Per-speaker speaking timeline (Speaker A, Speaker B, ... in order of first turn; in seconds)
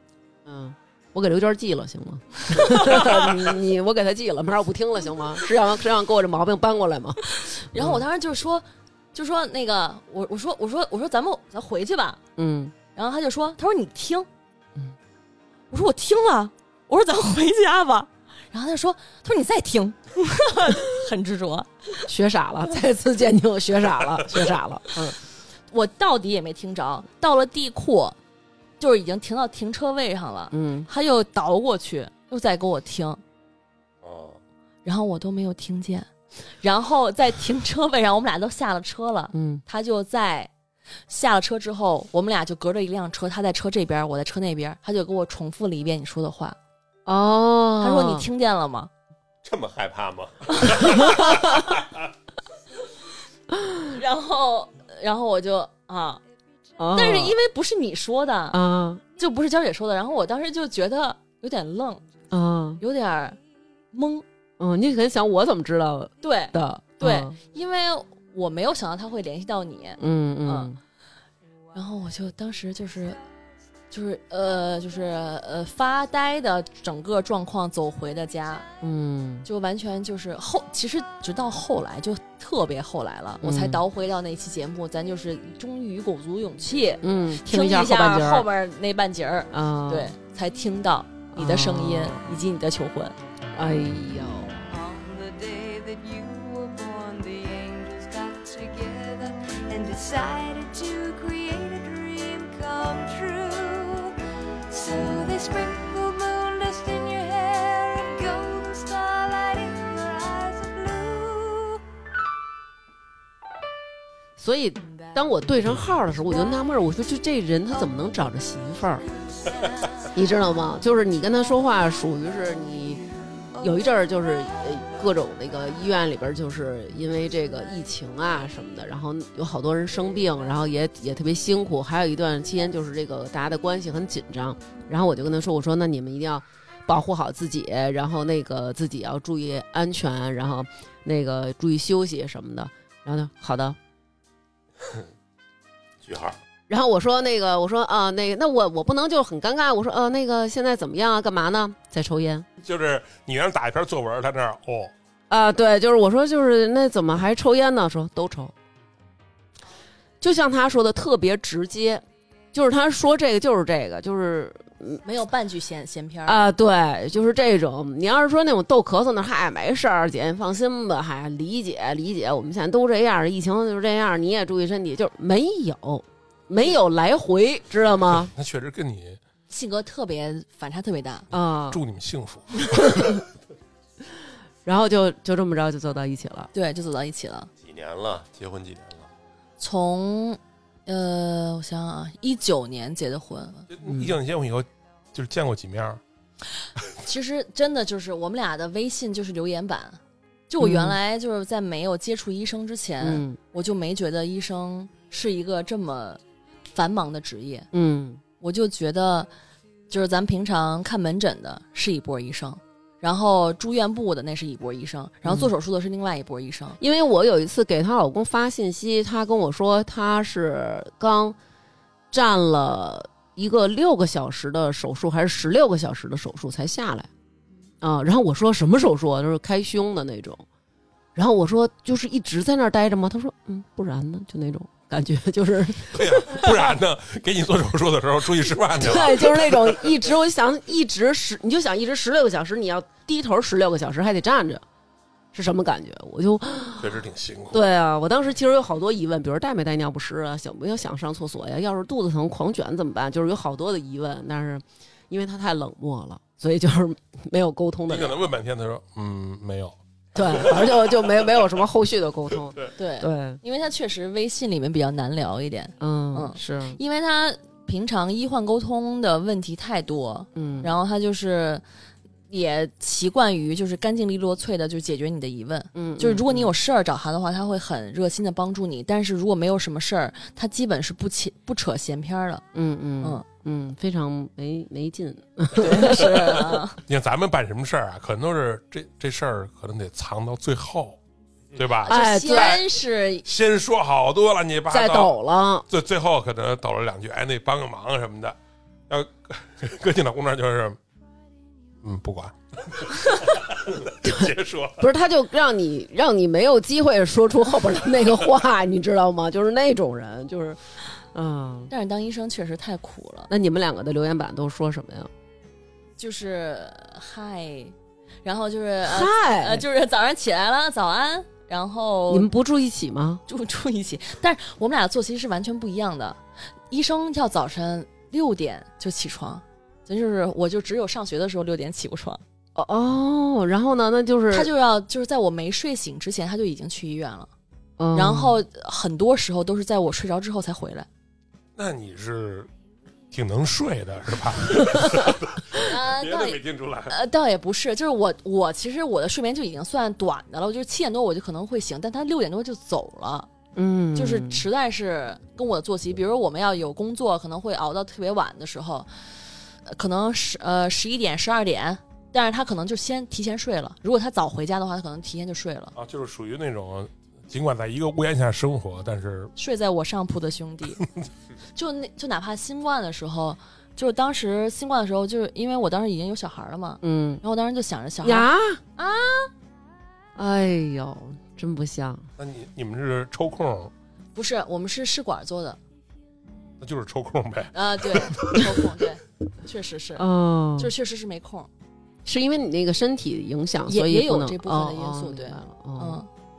Speaker A: 0.5-8.0, 12.4-12.7, 22.1-25.2, 30.5-30.9, 39.3-39.6, 47.0-48.3, 50.8-51.5, 53.5-53.8, 56.8-57.3, 58.5-59.0, 62.3-62.8, 64.6-67.3, 70.0-70.8, 78.8-79.5, 83.4-83.8, 87.0-88.5, 89.5-90.1, 91.3-92.3, 93.5-94.6, 114.4-119.0, 120.1-123.0, 123.6-143.8, 146.7-152.4, 155.3-158.5, 160.2-165.0, 166.2-178.3, 181.3-181.8, 182.7-183.2, 184.6-186.5, 193.8-194.1, 200.6-200.9, 203.0-203.4, 207.7-208.2, 215.2-215.5, 216.8-221.3, 222.1-227.1, 227.8-230.4, 231.2-236.4, 238.8-244.6, 245.3-247.0, 247.5-258.1, 260.1-263.4, 265.8-266.8, 270.3-270.7, 275.7-276.5, 282.5-286.6, 291.9-292.6, 294.7-295.7, 304.0-310.6, 311.1-311.7, 313.3-315.1, 318.8-319.6, 322.1-323.2, 332.6-334.5, 337.8-338.4, 353.6-354.4, 376.8-377.2, 378.0-378.6, 380.1-382.1, 390.0-390.7, 392.0-396.0
Speaker B: 2.5-3.4, 7.3-12.2, 12.9-14.3, 15.7-22.1, 25.7-28.1, 28.8-33.2, 34.8-36.1, 36.6-40.5, 41.1-46.6, 47.8-48.9, 53.8-56.2, 56.9-58.6, 59.2-62.0, 62.8-63.4, 63.9-64.2, 66.2-70.7, 71.7-73.2, 73.9-78.7, 79.5-93.1, 165.0-166.4, 179.5-181.3, 186.5-187.5, 189.6-193.7, 197.0-206.2, 206.7-207.7, 208.4-209.3, 209.9-216.8, 262.8-271.6, 272.3-282.4, 285.6-286.8, 291.8-293.3, 311.7-313.3, 316.0-322.3, 323.3-326.2, 326.7-332.2, 334.3-337.3, 337.9-340.9, 345.5-353.3, 353.9-358.9, 359.6-365.7, 369.4-370.8, 371.5-379.3, 384.1-385.6, 387.5-390.0, 390.6-391.5, 393.7-396.1
Speaker C: 34.0-34.4, 49.4-51.2, 146.0-146.4, 187.6-189.1
Speaker D: 94.7-104.1, 104.7-111.8, 119.3-120.1
Speaker E: 152.6-154.9, 178.3-179.2, 181.7-183.1, 193.7-196.0, 235.9-239.9, 246.8-247.6, 257.9-260.8, 286.9-291.0, 291.5-291.9, 293.2-295.1, 295.7-298.4, 298.9-300.8, 301.8-304.9, 341.6-342.5, 343.1-346.9, 365.7-369.3, 382.2-383.7, 386.6-388.7